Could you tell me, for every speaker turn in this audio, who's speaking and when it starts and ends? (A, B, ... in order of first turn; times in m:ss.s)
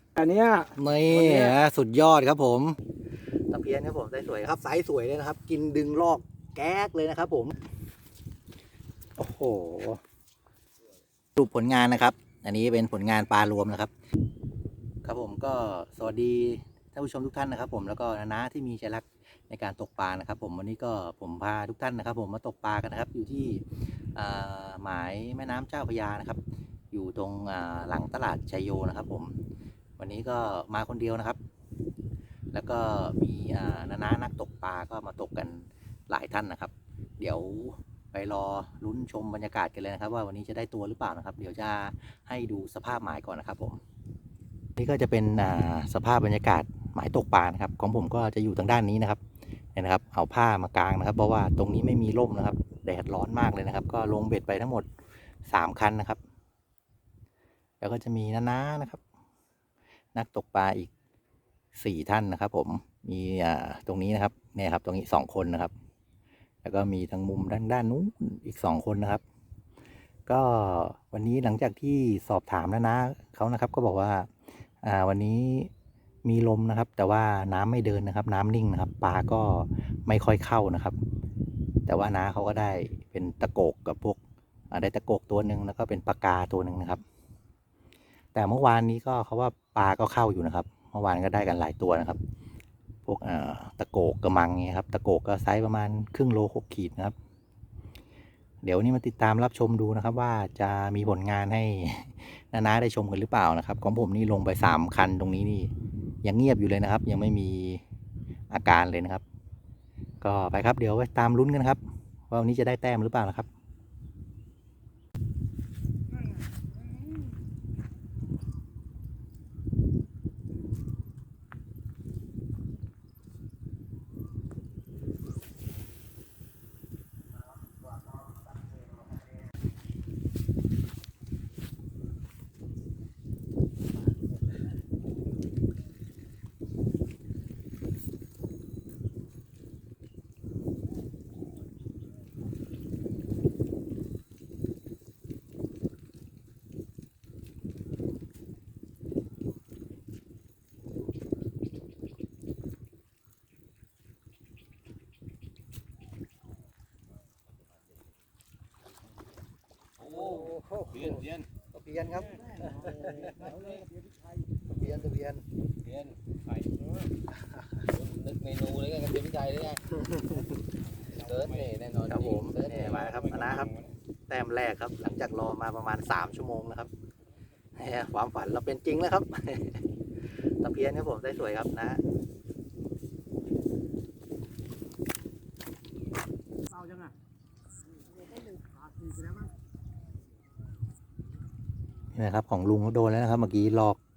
0:00.2-0:01.5 A
0:00.8-0:02.8 B
0:03.5-0:07.6 B
0:09.2-0:10.0 B
0:11.4-0:13.9 B
0:15.0-0:29.4 B
0:30.0-0:31.4 B
0:32.5-0:43.8 B
0:44.8-0:49.2 B
0:49.7-0:54.8 B
0:55.5-0:56.2 B
0:57.8-0:59.0 B
1:00.1-1:00.9 B
1:01.8-1:05.7 B
1:06.6-1:09.2 B
1:10.3-1:14.3 B
1:14.8-1:15.7 B
1:16.2-1:21.0 B
1:21.9-1:24.2 B
1:24.7-1:27.0 B
1:28.3-1:32.2 B
1:33.0-1:37.1 B
1:38.6-1:45.7 B
1:46.2-1:47.8 B
1:48.5-1:49.2 B
1:50.2-1:53.5 B
2:40.0-2:41.5 C
2:41.7-2:43.4 B
2:42.4-2:43.6 A
2:43.4-2:43.8 C
2:44.6-2:45.4 B
2:45.8-2:46.2 C
2:47.9-2:49.9 C
2:50.0-2:50.5 B
2:51.1-2:53.6 C
2:52.1-2:56.9 B
2:57.8-2:59.8 B
3:00.6-3:02.0 B
3:06.7-3:07.1 A
3:08.3-3:09.5 A
3:12.1-3:14.0 B